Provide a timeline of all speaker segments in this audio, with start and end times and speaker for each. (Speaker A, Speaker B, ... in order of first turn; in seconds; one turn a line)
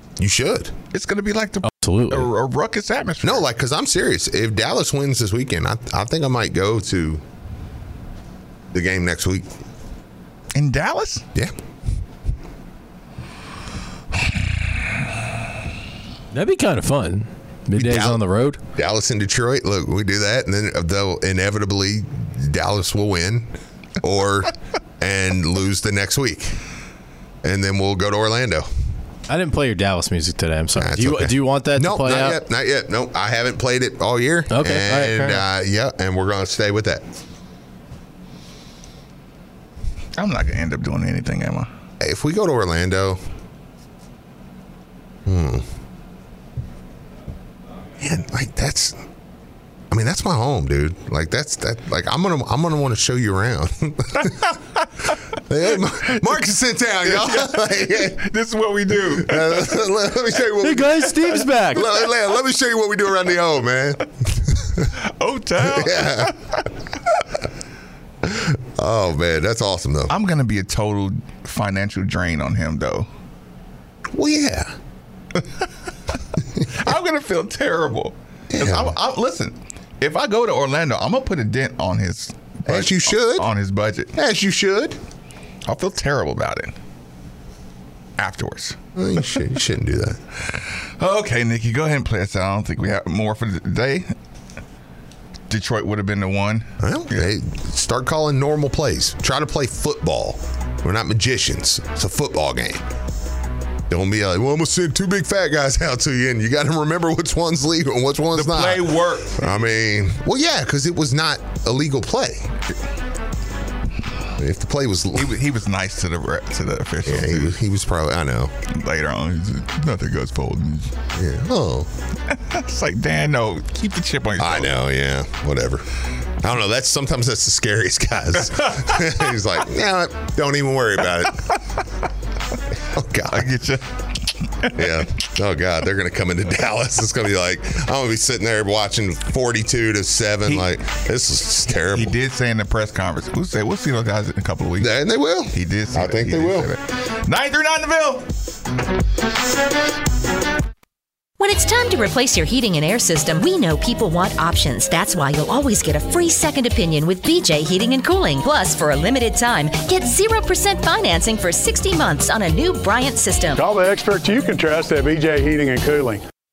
Speaker A: 0.2-0.7
Speaker B: 0.9-3.5
Speaker C: 1.7-2.3
Speaker A: 3.2-7.2
Speaker A: 8.7-9.5
Speaker B: 10.5-11.3
Speaker C: 16.3-18.6
Speaker A: 17.8-18.2
Speaker A: 18.7-23.5
Speaker A: 24.0-26.6
Speaker A: 27.4-28.7
Speaker C: 29.3-32.4
Speaker A: 30.8-37.0
Speaker C: 34.5-35.4
Speaker B: 40.2-41.7
Speaker A: 42.0-43.2
Speaker A: 45.3-45.7
Speaker A: 48.0-49.0
Speaker A: 49.9-54.5
Speaker B: 54.2-55.1
Speaker A: 55.3-58.3
Speaker B: 55.9-56.4
Speaker B: 57.0-60.0
Speaker A: 58.9-64.9
Speaker C: 60.6-61.8
Speaker B: 61.2-62.0
Speaker B: 64.9-66.7
Speaker A: 65.6-66.4
Speaker A: 68.2-70.2
Speaker B: 70.1-73.1
Speaker A: 74.1-74.8
Speaker B: 75.3-75.7
Speaker B: 76.6-84.1
Speaker A: 78.5-79.0
Speaker A: 82.7-83.5
Speaker A: 84.2-85.0
Speaker B: 85.7-86.8
Speaker B: 88.2-88.8
Speaker A: 89.0-90.2
Speaker B: 90.5-94.1
Speaker B: 95.5-97.3
Speaker A: 96.8-102.9
Speaker A: 103.9-112.5
Speaker B: 108.3-109.7
Speaker A: 114.4-115.3
Speaker B: 115.1-117.6
Speaker A: 117.0-118.5
Speaker B: 118.7-121.0
Speaker A: 121.1-121.9
Speaker B: 122.3-124.7
Speaker A: 124.4-125.9
Speaker A: 126.4-131.6
Speaker B: 128.5-129.3
Speaker A: 132.8-133.5
Speaker B: 133.3-135.1
Speaker A: 134.7-142.2
Speaker B: 140.4-140.8
Speaker B: 141.7-145.0
Speaker A: 144.8-146.7
Speaker B: 145.5-148.3
Speaker D: 151.4-163.6
Speaker E: 163.6-166.2